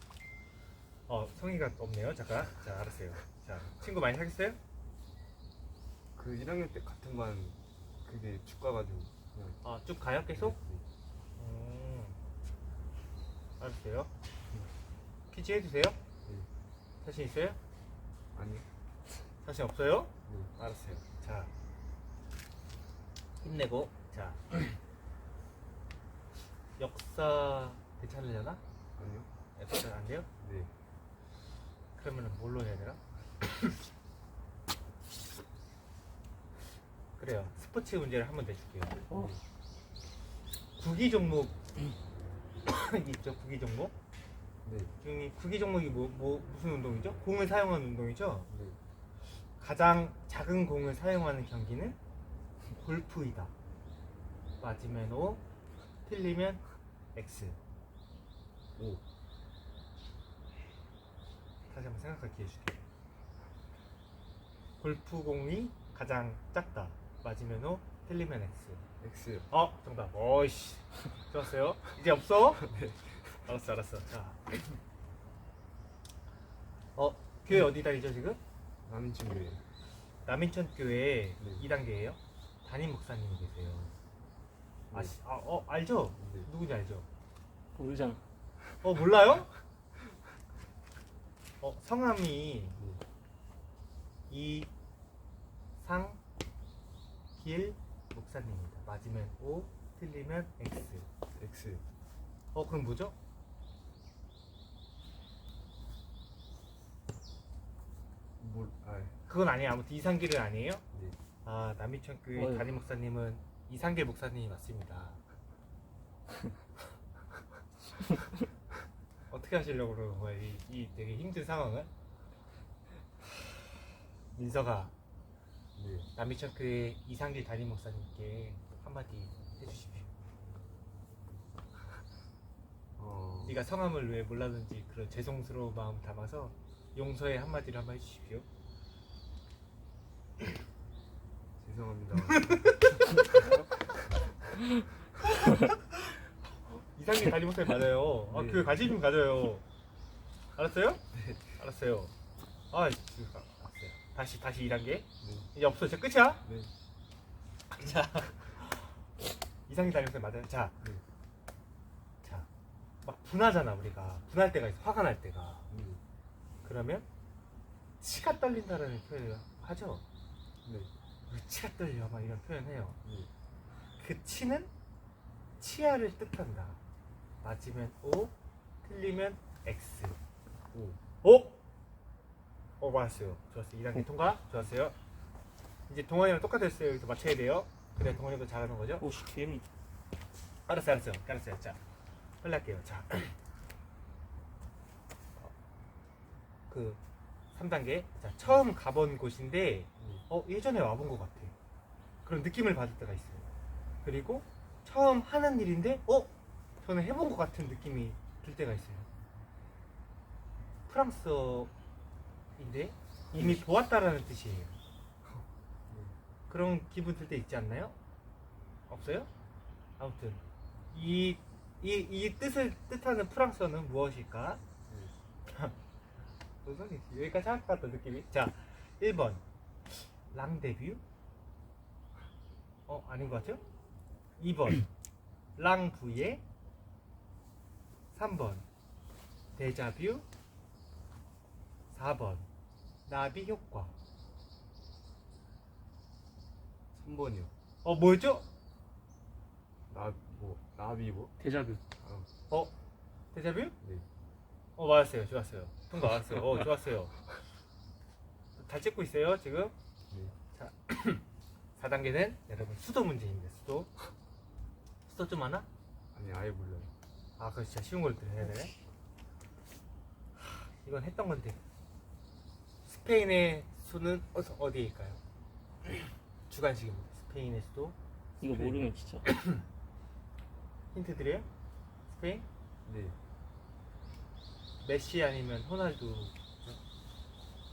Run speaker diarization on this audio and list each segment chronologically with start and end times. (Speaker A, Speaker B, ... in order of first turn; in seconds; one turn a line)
Speaker A: 1.1-4.6
Speaker B: 6.2-9.6
Speaker A: 9.6-10.6
Speaker B: 10.3-10.8
Speaker A: 11.4-12.2
Speaker A: 13.6-14.1
Speaker A: 15.3-16.0
Speaker A: 17.0-17.6
Speaker B: 18.3-18.6
Speaker A: 19.4-21.5
Speaker B: 20.3-20.5
Speaker A: 23.4-24.7
Speaker A: 26.8-28.6
Speaker B: 28.9-29.3
Speaker A: 29.6-30.3
Speaker B: 30.4-30.7
Speaker A: 31.9-33.0
Speaker A: 37.2-39.0
Speaker B: 39.1-39.4
Speaker A: 40.8-41.6
Speaker A: 42.6-43.9
Speaker B: 44.6-44.9
Speaker A: 45.0-48.5
Speaker B: 48.5-48.8
Speaker A: 49.6-52.0
Speaker A: 52.7-53.5
Speaker A: 54.6-55.4
Speaker A: 56.0-56.6
Speaker A: 57.1-57.6
Speaker B: 58.8-59.0
Speaker A: 61.7-62.8
Speaker A: 64.8-68.8
Speaker B: 69.0-69.5
Speaker A: 69.5-72.7
Speaker B: 72.6-73.2
Speaker A: 73.4-74.8
Speaker A: 77.0-78.4
Speaker B: 78.8-79.6
Speaker A: 80.2-83.9
Speaker A: 84.9-87.1
Speaker B: 86.2-86.5
Speaker C: 87.7-88.2
Speaker A: 88.8-89.5
Speaker A: 91.6-92.8
Speaker A: 94.3-94.7
Speaker A: 95.8-96.2
Speaker A: 97.3-101.1
Speaker B: 101.3-101.8
Speaker A: 102.5-103.1
Speaker B: 108.4-109.2
Speaker A: 109.3-110.8
Speaker A: 111.4-115.2
Speaker C: 112.3-112.6
Speaker A: 119.3-121.9
Speaker A: 124.3-124.9
Speaker B: 125.8-126.1
Speaker A: 126.1-130.1
Speaker B: 133.0-133.6
Speaker A: 133.4-138.4
Speaker B: 141.6-143.1
Speaker A: 142.3-142.9
Speaker A: 146.6-149.6
Speaker B: 148.3-148.8
Speaker A: 150.6-151.0
Speaker B: 151.1-151.4
Speaker A: 151.6-152.1
Speaker A: 152.7-156.4
Speaker B: 155.2-155.5
Speaker B: 156.4-156.7
Speaker A: 157.7-159.0
Speaker A: 159.7-160.7
Speaker A: 162.2-162.5
Speaker A: 163.0-165.7
Speaker B: 165.7-166.0
Speaker A: 166.6-167.1
Speaker A: 168.0-170.0
Speaker B: 170.6-170.9
Speaker A: 171.3-173.0
Speaker B: 173.0-173.3
Speaker A: 174.0-174.7
Speaker A: 175.6-176.8
Speaker A: 177.4-178.3
Speaker A: 178.8-180.2
Speaker B: 180.7-181.0
Speaker A: 181.2-181.6
Speaker A: 182.8-184.9
Speaker A: 185.9-189.1
Speaker C: 189.0-189.6
Speaker A: 190.7-191.8
Speaker A: 192.4-193.3
Speaker A: 196.7-197.0
Speaker A: 197.5-201.5
Speaker A: 202.2-203.4
Speaker A: 204.0-209.1
Speaker A: 210.9-211.7
Speaker A: 212.6-214.8
Speaker B: 215.2-216.2
Speaker A: 216.5-217.9
Speaker A: 218.9-219.3
Speaker A: 220.0-224.6
Speaker B: 224.9-225.2
Speaker A: 225.5-225.7
Speaker A: 226.6-231.0
Speaker A: 232.9-233.6
Speaker A: 234.4-234.9
Speaker A: 235.6-236.4
Speaker A: 238.1-238.6
Speaker A: 239.6-240.2
Speaker A: 241.9-242.4
Speaker A: 243.1-243.9
Speaker B: 246.9-247.5
Speaker A: 247.8-248.4
Speaker B: 249.9-251.3
Speaker C: 251.4-251.8
Speaker B: 252.0-252.3
Speaker A: 253.3-253.7
Speaker A: 254.8-257.1
Speaker A: 258.6-259.7
Speaker A: 260.5-261.2
Speaker A: 261.8-263.9
Speaker A: 265.0-265.7
Speaker B: 266.1-266.9
Speaker A: 267.4-268.7
Speaker A: 270.8-271.6
Speaker A: 272.8-275.2
Speaker A: 276.5-277.9
Speaker C: 278.4-279.3
Speaker B: 278.4-278.8
Speaker A: 279.2-279.6
Speaker A: 280.9-281.5
Speaker A: 282.1-282.4
Speaker B: 282.9-283.2
Speaker A: 284.8-286.7